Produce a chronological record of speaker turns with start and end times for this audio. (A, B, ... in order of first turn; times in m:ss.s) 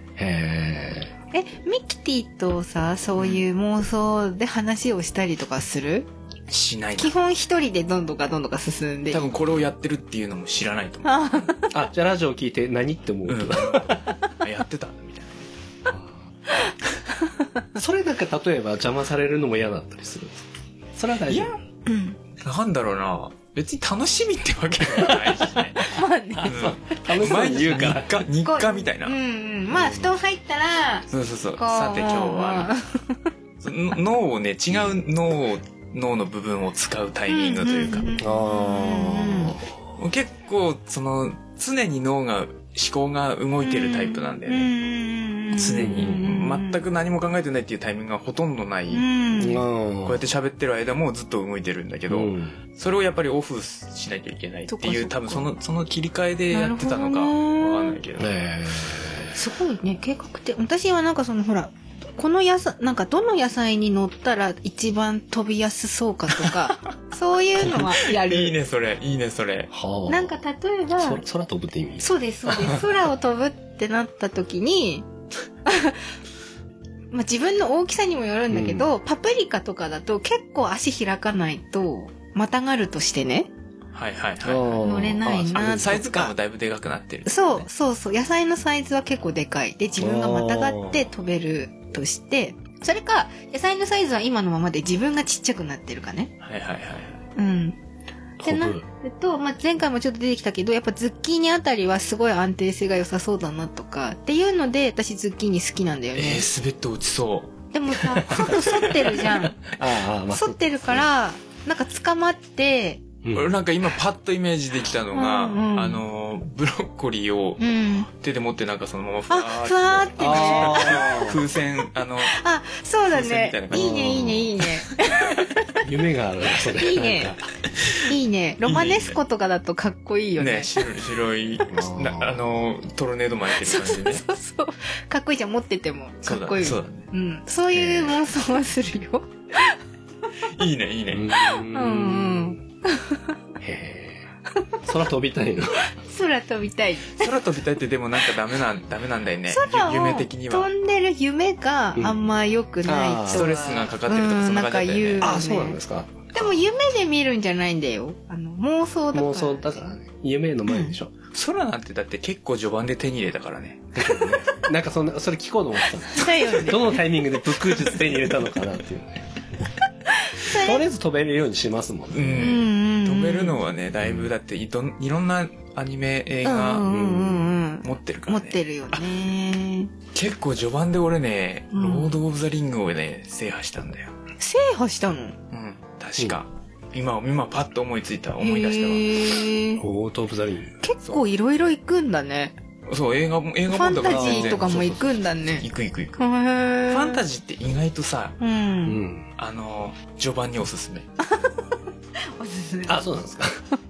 0:00.2-0:01.1 A
0:01.3-0:06.1 B
0:03.2-0:03.4 C
0:06.5-0:07.1 C
0:07.0-0:09.2 B
0:09.1-0:11.5 C
0:11.0-0:11.7 B
0:11.7-0:14.1 A
0:13.3-0:15.5 C
0:15.9-0:16.2 A
0:16.5-0:17.6 B
0:17.8-0:20.4 A
0:20.9-0:21.6 A
0:21.3-0:21.6 C
0:21.8-0:22.2 B
0:22.4-0:29.2 C
0:25.0-0:25.3 A
0:25.8-0:26.7 B
0:26.4-0:28.3 A
0:28.4-0:31.1 B
0:29.7-0:30.1 A
0:31.1-0:32.7 C
0:31.6-0:33.2 B
0:33.6-0:38.1 C
0:37.3-0:39.6 B
0:38.2-0:39.7 A
0:40.0-0:44.7 C
0:43.6-0:46.8 B
0:45.5-0:49.0 C
0:45.8-0:46.2 A
0:48.9-0:49.6 B
0:49.4-0:50.2 A
0:50.0-0:58.3 C
0:52.1-0:52.6 A
0:54.7-0:55.5 B
0:56.5-0:58.0 B
0:58.2-0:59.4 A
0:59.3-1:08.5 B
1:07.6-1:07.9 A
1:07.6-1:09.7 C
1:09.7-1:10.4 A
1:10.1-1:11.2 B
1:11.0-1:12.9 A
1:12.0-1:15.0 B
1:15.6-1:16.0 B
1:17.1-1:23.5 B
1:18.5-1:18.9 A
1:23.9-1:24.8 C
1:24.4-1:26.1 A
1:24.8-1:26.3 B
1:25.5-1:27.7 C
1:27.2-1:36.3 B
1:30.0-1:31.1 A
1:36.4-1:37.2 C
1:37.4-1:37.8 B
1:38.4-1:38.8 A
1:38.4-1:46.4 B
1:46.1-1:47.6 C
1:47.7-1:49.7 B
1:48.2-1:51.1 A
1:48.3-1:49.1 C
1:50.3-1:53.0 B
1:53.2-1:53.6 A
1:53.3-2:02.4 C
1:55.1-1:56.0 B
1:57.6-1:58.1 B
1:59.3-2:01.3 B
2:00.2-2:01.4 A
2:02.2-2:05.8 B
2:03.1-2:04.2 C
2:03.7-2:04.5 A
2:05.8-2:07.4 A
2:06.7-2:07.4 B
2:07.7-2:08.1 C
2:08.1-2:10.7 B
2:08.6-2:09.2 C
2:10.4-2:14.2 C
2:11.7-2:12.4 A
2:13.6-2:19.8 B
2:16.2-2:17.1 C
2:17.7-2:18.1 A
2:20.5-2:21.3 C
2:21.1-2:22.6 A
2:21.3-2:23.3 B
2:23.6-2:24.2 A
2:24.8-2:25.9 A
2:25.8-2:27.4 B
2:27.1-2:30.7 C
2:29.5-2:35.8 B
2:31.9-2:32.2 A
2:32.8-2:33.8 A
2:33.3-2:35.3 C
2:35.2-2:36.3 A
2:36.3-2:39.7 B
2:39.1-2:41.1 A
2:40.7-2:40.9 B
2:41.3-2:44.0 C
2:44.0-2:49.3 A
2:44.1-2:44.6 B
2:46.1-2:47.0 B
2:50.1-2:50.8 B
2:50.5-2:52.6 A
2:52.1-2:56.9 C
2:52.4-2:53.6 B
2:54.0-2:54.3 A
2:56.4-2:59.9 B
2:56.8-2:57.5 A
2:57.8-2:59.0 C
3:00.1-3:04.1 C
3:01.7-3:02.1 B
3:04.4-3:05.4 B
3:05.5-3:09.3 C
3:08.4-3:09.8 B
3:09.8-3:10.7 A
3:10.8-3:12.5 B
3:12.9-3:16.2 C
3:13.7-3:15.6 B
3:14.0-3:14.8 A
3:16.2-3:17.2 B
3:16.9-3:18.4 C
3:18.4-3:19.0 B
3:18.8-3:19.2 A
3:19.4-3:21.1 C
3:21.2-3:21.6 B
3:22.4-3:23.1 B
3:22.8-3:23.6 A